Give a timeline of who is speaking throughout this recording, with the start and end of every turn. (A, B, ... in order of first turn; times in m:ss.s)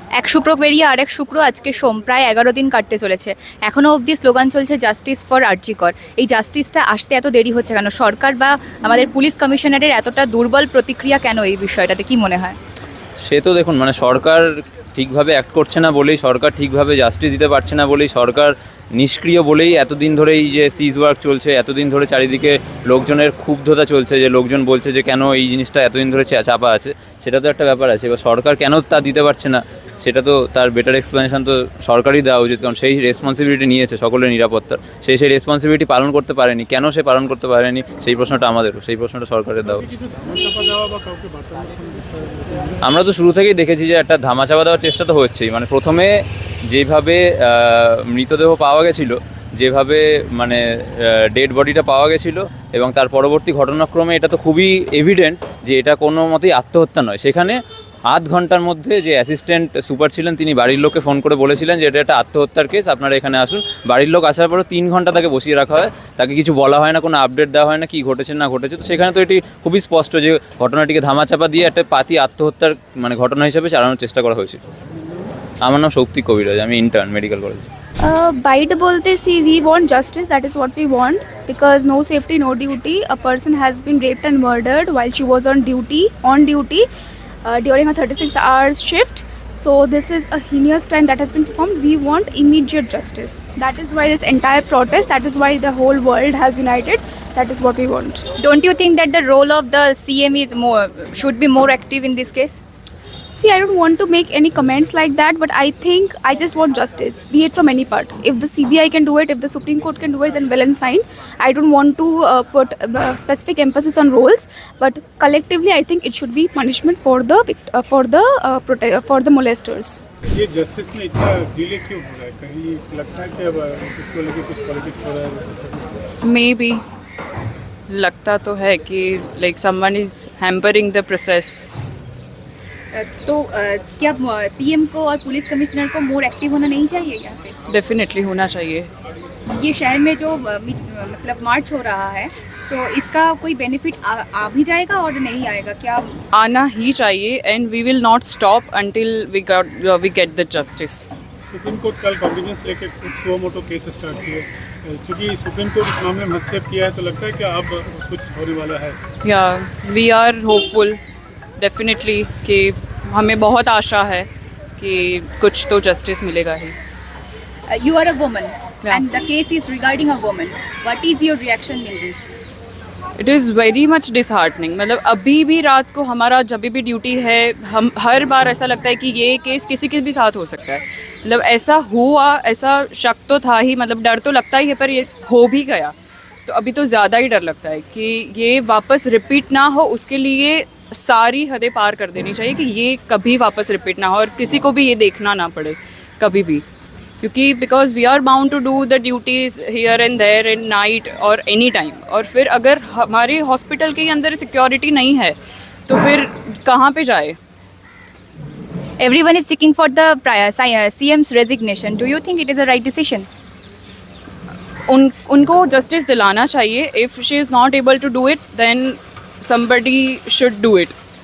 0:00.2-0:12.6 A
0:13.2-0:39.9 B
0:39.7-0:42.8 C
0:42.8-1:14.6 B
1:15.6-1:17.7 B
1:18.0-1:26.8 D
1:27.4-1:38.3 D
1:38.4-1:42.6 A
1:43.3-2:00.0 D
2:00.3-2:06.0 C
2:06.2-2:06.8 E
2:07.9-2:11.7 E
2:12.9-2:17.4 A
2:17.7-2:18.9 E
2:19.5-2:26.1 A
2:26.3-2:31.1 E
2:31.5-2:39.0 C
2:39.2-2:41.0 E
2:41.6-2:46.7 E
2:47.7-2:52.2 A
2:53.2-3:05.9 E
3:06.5-3:16.6 E
3:17.2-3:25.4 E
3:25.9-3:27.4 E
3:29.0-3:33.3 A
3:34.9-3:40.9 E